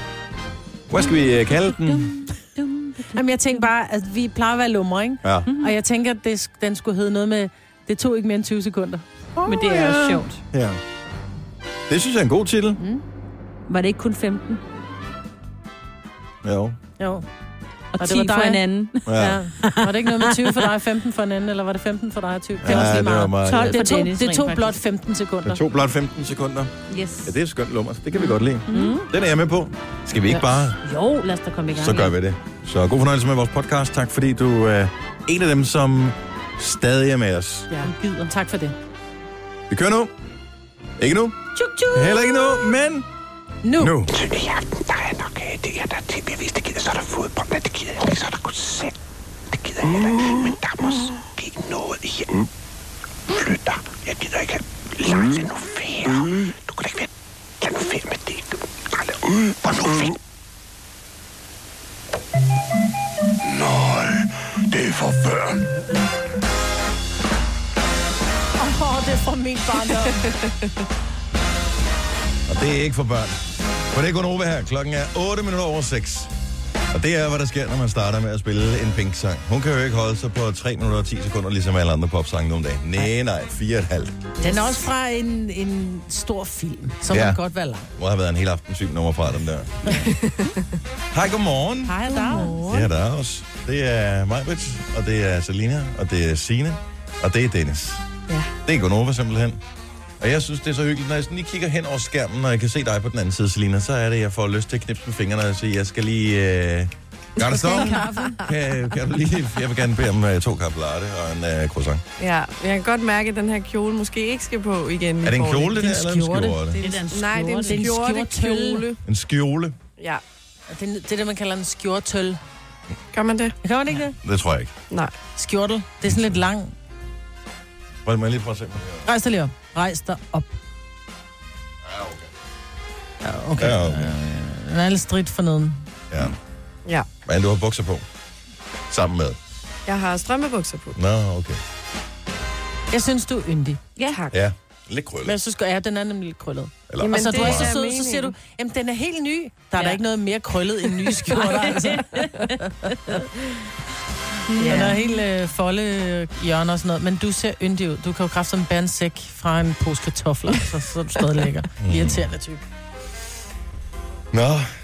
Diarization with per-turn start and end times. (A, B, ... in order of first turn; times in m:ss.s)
0:00.9-0:02.1 A
0:01.0-0:03.1 B
0:03.1-0:10.2 C
0:05.5-0:05.7 B
0:09.4-0:10.4 B
0:10.5-0:10.8 A
0:11.9-0:12.8 A
0:13.7-0:14.6 B
0:16.4-0:16.8 A
0:17.0-0:17.2 C
0:17.9-0:20.7 B
0:18.0-0:25.6 C
0:19.0-0:19.4 A
0:22.6-0:23.8 A
0:22.6-0:24.8 B
0:25.4-0:30.8 A
0:26.9-0:27.3 B
0:28.2-0:29.1 B
0:30.8-0:32.1 B
0:31.7-0:37.7 A
0:37.7-0:38.8 C
0:37.9-0:38.3 B
0:39.7-0:40.1 A
0:41.0-0:41.4 A
0:41.6-0:42.3 C
0:41.9-0:43.1 A
0:43.6-0:44.0 C
0:43.8-0:44.1 A
0:44.1-0:48.9 D
0:49.5-0:52.5 D
0:53.3-0:57.1 D
0:57.6-1:00.2 D
1:03.4-1:05.6 D
1:08.6-1:10.2 C
1:10.0-1:10.7 E
1:12.5-1:16.3 A
1:16.9-1:24.2 A
1:24.4-1:27.9 C
1:27.1-1:27.4 A
1:27.9-1:29.9 A
1:30.1-1:30.6 E
1:31.1-1:38.0 A
1:31.9-1:32.7 C
1:38.6-1:39.6 A
1:40.2-1:52.0 A
1:47.4-1:48.1 E
1:47.6-1:48.4 C
1:52.2-1:55.8 E
1:55.2-1:56.9 A
1:55.7-1:56.6 C
1:56.8-1:59.0 E
1:56.8-1:57.8 B
1:57.6-1:58.8 C
1:59.0-1:59.8 A
2:00.7-2:02.4 C
2:03.1-2:03.5 E
2:03.6-2:04.2 C
2:04.2-2:04.7 A
2:05.3-2:06.7 C
2:08.0-2:09.1 A
2:09.0-2:10.5 C
2:11.8-2:12.3 A
2:13.2-2:15.9 C
2:13.6-2:14.1 A
2:17.2-2:18.0 A
2:18.9-2:19.4 A
2:19.9-2:21.0 E
2:20.9-2:21.6 A
2:22.9-2:23.8 C
2:24.0-2:24.2 B
2:24.1-2:24.4 E
2:24.3-2:25.4 A
2:25.2-2:33.3 C
2:26.9-2:27.7 A
2:27.0-2:28.3 E
2:31.3-2:32.5 B
2:34.5-2:35.0 B
2:34.6-2:35.0 E
2:34.6-2:42.6 C
2:41.8-2:42.2 A
2:44.3-2:44.7 A